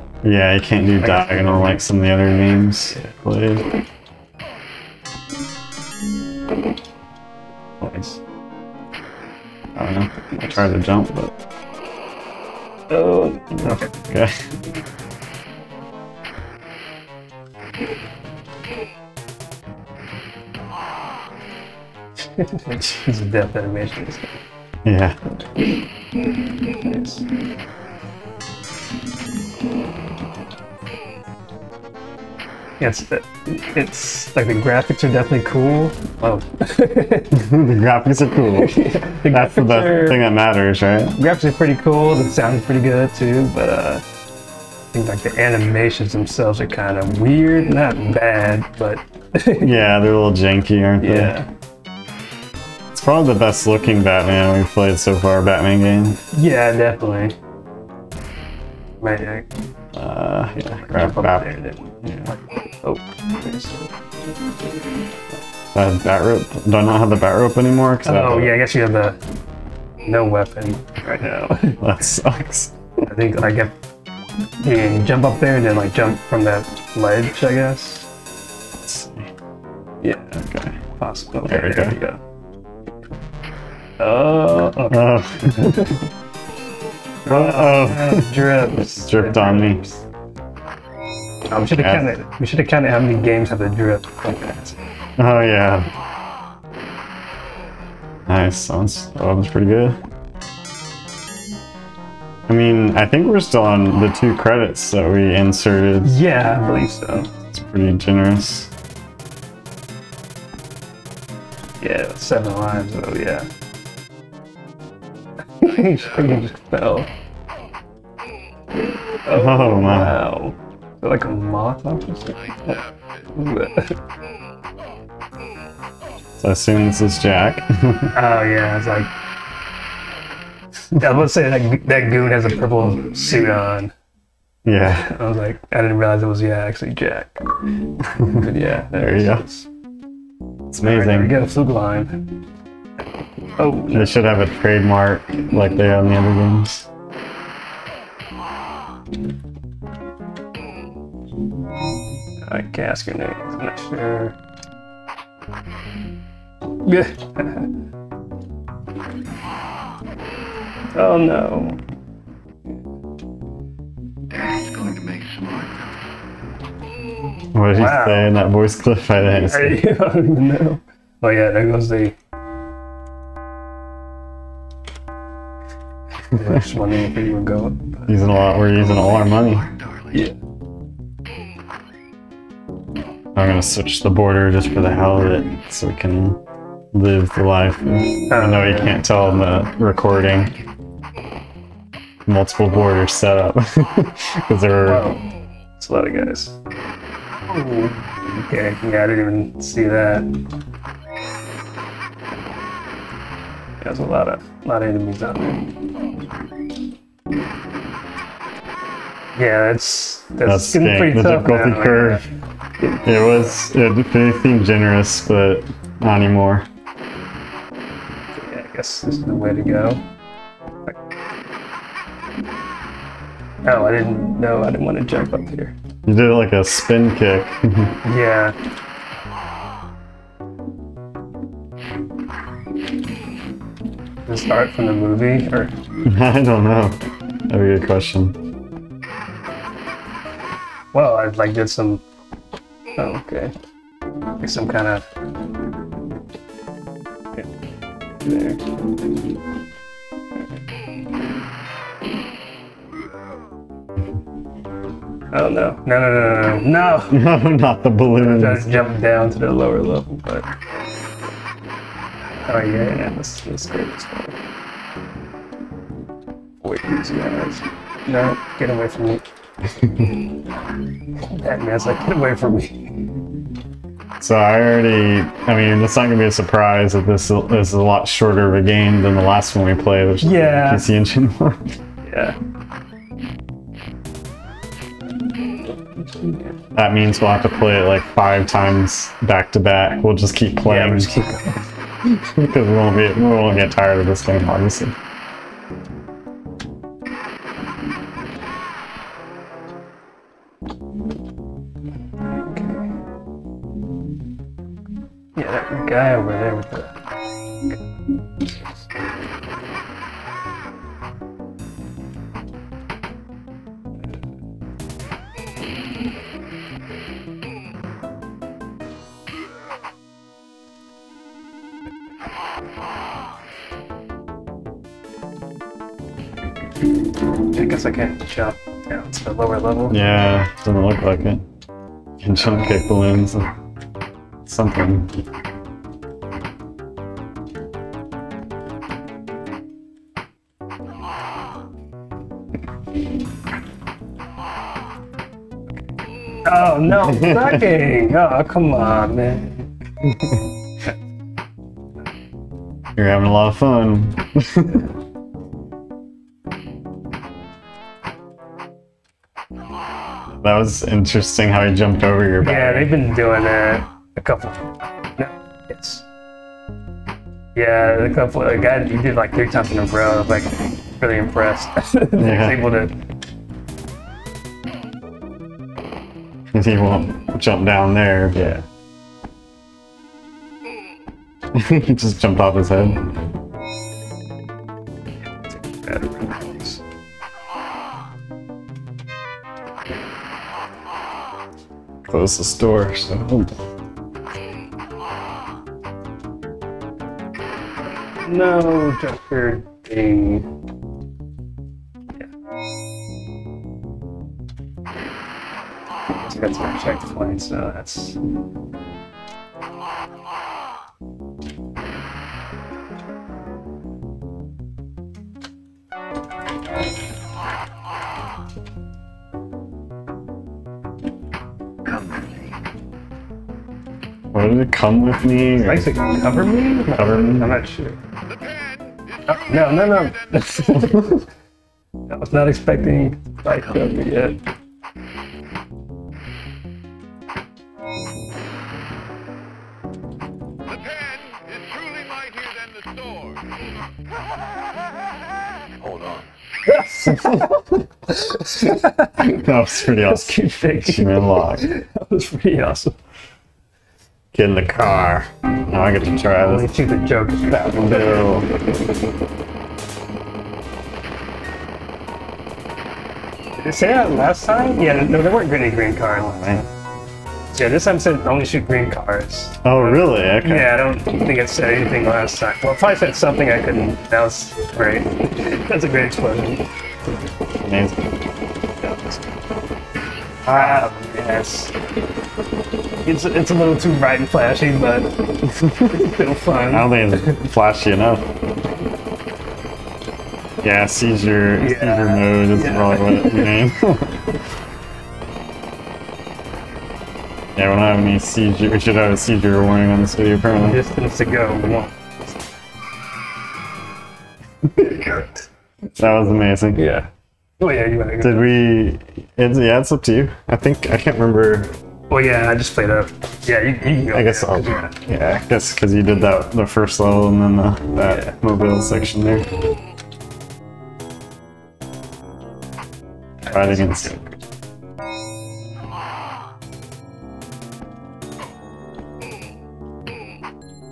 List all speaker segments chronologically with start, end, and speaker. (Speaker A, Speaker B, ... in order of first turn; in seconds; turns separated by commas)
Speaker A: 0.2-3.7, Speaker B: 1.0-1.8, Speaker A: 7.8-8.2, Speaker A: 9.8-11.3, Speaker B: 10.3-10.7, Speaker B: 12.9-13.9, Speaker A: 13.6-14.4, Speaker B: 22.3-24.5, Speaker A: 24.8-25.2, Speaker B: 25.3-25.8, Speaker B: 26.7-27.2, Speaker B: 32.8-37.4, Speaker A: 37.3-41.2, Speaker B: 38.5-40.2, Speaker B: 41.2-44.0, Speaker B: 44.9-49.7, Speaker A: 49.6-51.4, Speaker B: 51.0-51.5, Speaker A: 52.9-56.2, Speaker B: 56.3-57.4, Speaker B: 59.0-59.5, Speaker A: 59.9-62.3, Speaker B: 60.8-63.8, Speaker A: 65.7-68.6, Speaker B: 68.0-69.2, Speaker B: 70.0-71.8, Speaker A: 71.8-72.8, Speaker B: 73.0-73.8, Speaker B: 74.6-78.1, Speaker A: 78.8-79.3, Speaker B: 80.0-80.4, Speaker A: 80.4-80.8, Speaker B: 81.0-82.2, Speaker A: 81.5-82.0, Speaker B: 84.0-86.1, Speaker A: 84.9-86.0, Speaker B: 87.2-89.9, Speaker A: 87.3-89.8, Speaker B: 91.5-94.8, Speaker A: 91.7-92.2, Speaker A: 95.2-95.9, Speaker A: 98.3-100.0, Speaker A: 102.5-106.2, Speaker B: 106.0-107.3, Speaker A: 107.5-108.7, Speaker B: 111.8-113.5, Speaker B: 115.6-117.1, Speaker B: 119.2-122.8, Speaker A: 119.3-120.2, Speaker C: 122.4-123.3, Speaker B: 123.3-124.0, Speaker A: 126.4-128.1, Speaker B: 128.1-129.1, Speaker B: 131.0-133.9, Speaker A: 134.7-135.1, Speaker B: 134.8-137.4, Speaker A: 138.2-139.4, Speaker B: 138.2-139.7, Speaker A: 140.7-141.4, Speaker B: 140.8-142.3, Speaker B: 143.6-144.2, Speaker A: 143.9-146.9, Speaker B: 152.4-154.4, Speaker B: 156.8-157.7, Speaker B: 160.9-161.8, Speaker C: 164.3-166.1, Speaker A: 167.5-169.8, Speaker B: 167.7-168.3, Speaker B: 169.4-172.2, Speaker B: 176.3-178.1, Speaker A: 178.1-179.7, Speaker C: 179.0-180.1, Speaker A: 183.3-186.4, Speaker A: 186.9-190.6, Speaker B: 188.3-189.0, Speaker A: 192.3-195.1, Speaker B: 194.8-195.2, Speaker B: 195.8-196.5, Speaker B: 197.4-200.3, Speaker B: 203.8-205.7, Speaker B: 209.4-212.2, Speaker A: 210.4-212.2, Speaker B: 212.8-213.5, Speaker A: 213.0-216.7, Speaker B: 218.3-220.0, Speaker B: 223.6-225.8, Speaker A: 226.1-228.0, Speaker B: 228.0-228.6, Speaker B: 234.3-235.7, Speaker A: 236.1-238.4, Speaker B: 240.9-242.0, Speaker B: 243.0-243.5, Speaker B: 244.4-245.1, Speaker B: 248.2-248.7, Speaker B: 255.3-257.2, Speaker A: 257.1-258.8, Speaker B: 258.1-260.5, Speaker B: 262.4-264.4, Speaker B: 266.6-269.2, Speaker B: 271.2-273.1, Speaker A: 274.2-281.8, Speaker B: 280.2-280.9, Speaker B: 282.0-282.4, Speaker B: 286.0-286.5, Speaker A: 286.8-291.3, Speaker B: 290.6-291.6, Speaker A: 292.0-295.0, Speaker B: 302.5-302.9, Speaker B: 305.4-306.9, Speaker B: 308.4-308.7, Speaker B: 327.5-330.1, Speaker A: 329.9-331.5, Speaker A: 332.2-333.5, Speaker B: 332.4-332.7, Speaker A: 334.5-335.2, Speaker B: 346.4-349.7, Speaker A: 346.9-347.6, Speaker A: 353.0-354.9, Speaker A: 360.4-362.9, Speaker B: 362.4-366.0, Speaker B: 367.6-372.9, Speaker A: 372.2-372.6, Speaker A: 376.5-378.6, Speaker B: 378.4-378.6, Speaker A: 381.5-383.1, Speaker B: 385.2-386.8, Speaker A: 392.0-393.6, Speaker B: 398.2-400.5, Speaker B: 406.1-408.2, Speaker C: 421.9-422.6, Speaker A: 424.3-425.9, Speaker B: 425.6-428.0, Speaker A: 426.9-427.6, Speaker B: 429.3-431.2, Speaker B: 432.1-434.4, Speaker C: 440.8-443.4, Speaker C: 445.8-446.4, Speaker B: 446.7-453.0, Speaker A: 447.1-447.6, Speaker A: 449.2-451.7, Speaker A: 454.3-456.8, Speaker B: 456.4-458.5, Speaker A: 457.5-458.5, Speaker B: 463.6-466.7, Speaker A: 466.3-466.6, Speaker B: 467.5-477.2, Speaker A: 469.6-470.8, Speaker A: 477.6-478.2, Speaker B: 478.8-479.4, Speaker A: 480.4-480.9, Speaker B: 480.5-481.7, Speaker B: 483.0-487.4, Speaker A: 485.5-486.0, Speaker A: 486.7-488.3, Speaker A: 490.6-494.4, Speaker B: 491.6-493.5, Speaker A: 497.6-500.8, Speaker B: 500.6-502.0, Speaker A: 504.8-505.1, Speaker A: 506.0-506.9, Speaker B: 506.7-508.5, Speaker A: 508.2-511.7, Speaker B: 512.1-515.0, Speaker A: 514.1-519.5, Speaker B: 518.0-518.4, Speaker B: 523.4-524.4, Speaker A: 523.5-524.1